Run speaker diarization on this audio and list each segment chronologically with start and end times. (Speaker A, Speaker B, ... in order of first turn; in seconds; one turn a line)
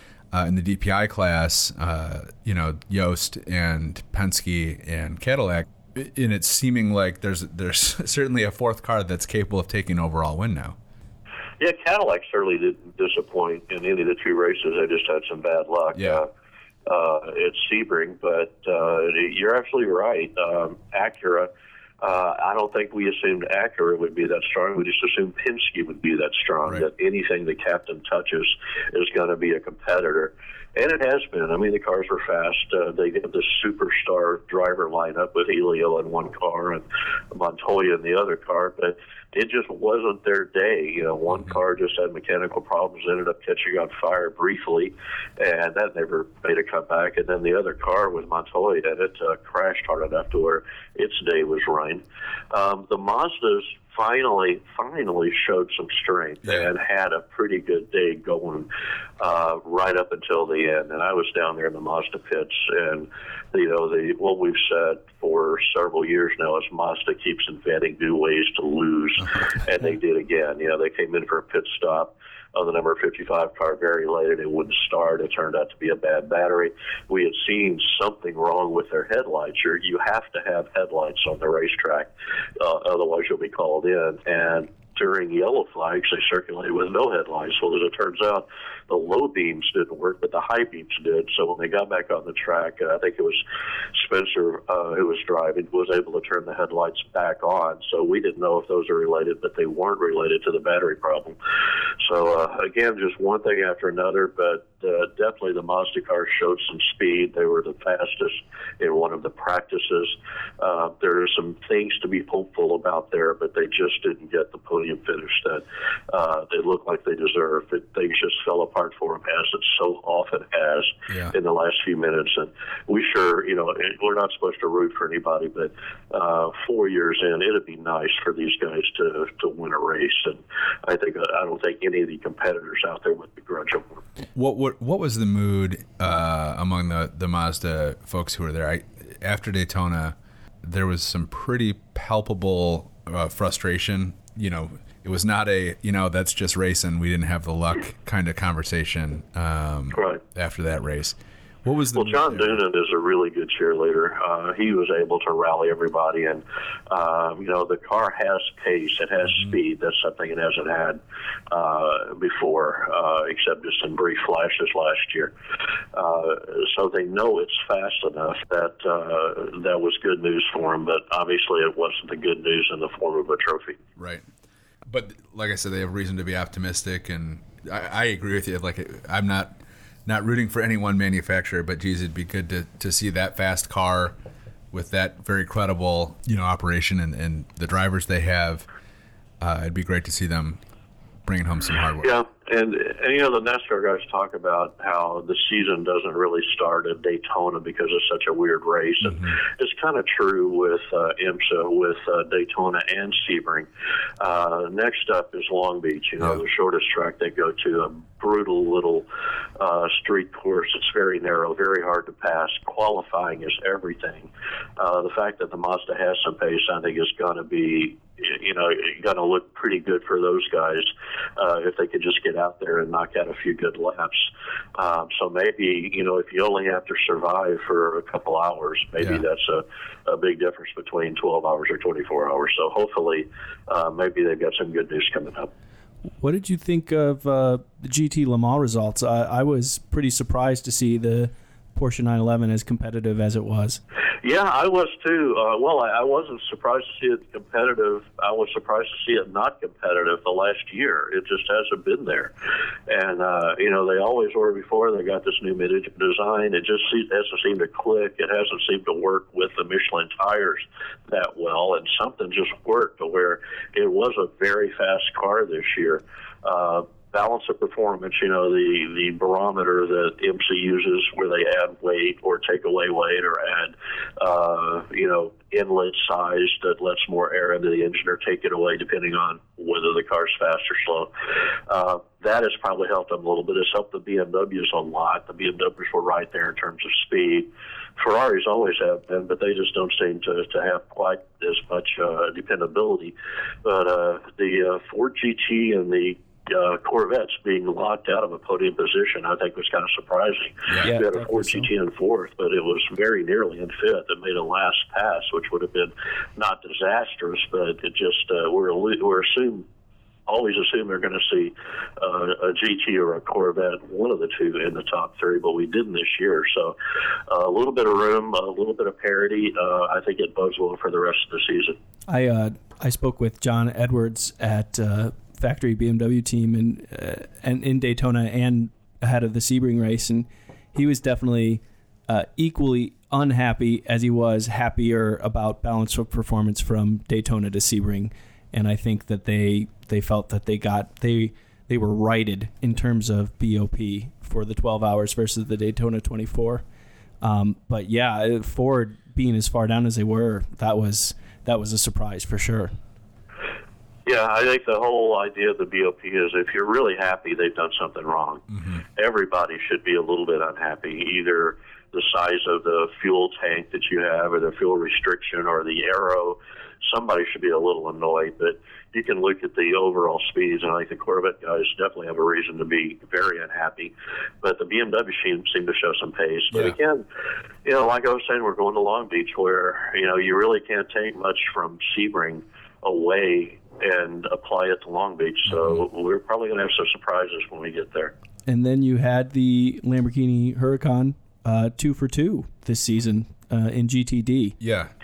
Speaker A: 0.3-10.8
Speaker B: 11.6-16.3
Speaker A: 15.9-16.2
Speaker B: 16.9-21.5
Speaker B: 22.0-58.7
Speaker A: 56.4-56.7
Speaker B: 59.2-93.4
Speaker B: 93.9-101.4
Speaker B: 102.0-134.0
Speaker A: 121.1-121.3
Speaker A: 134.3-152.6
Speaker B: 149.9-150.2
Speaker B: 151.9-161.0
Speaker B: 161.5-165.3
Speaker B: 165.9-173.8
Speaker A: 174.0-174.2
Speaker A: 174.9-184.2
Speaker A: 184.7-188.7
Speaker A: 189.4-190.6
Speaker A: 191.2-192.2
Speaker B: 192.0-203.7
Speaker B: 204.2-209.1
Speaker B: 209.6-235.5
Speaker A: 229.0-229.2
Speaker C: 236.2-243.8
Speaker B: 244.2-252.3
Speaker B: 252.9-281.1
Speaker B: 281.7-309.7
Speaker C: 300.8-301.7
Speaker B: 310.3-316.8
Speaker B: 317.3-321.8
Speaker C: 322.1-346.6
Speaker C: 347.2-352.7
Speaker B: 354.1-377.1
Speaker B: 377.6-388.1
Speaker A: 385.5-385.8
Speaker C: 388.5-394.6
Speaker A: 394.6-394.9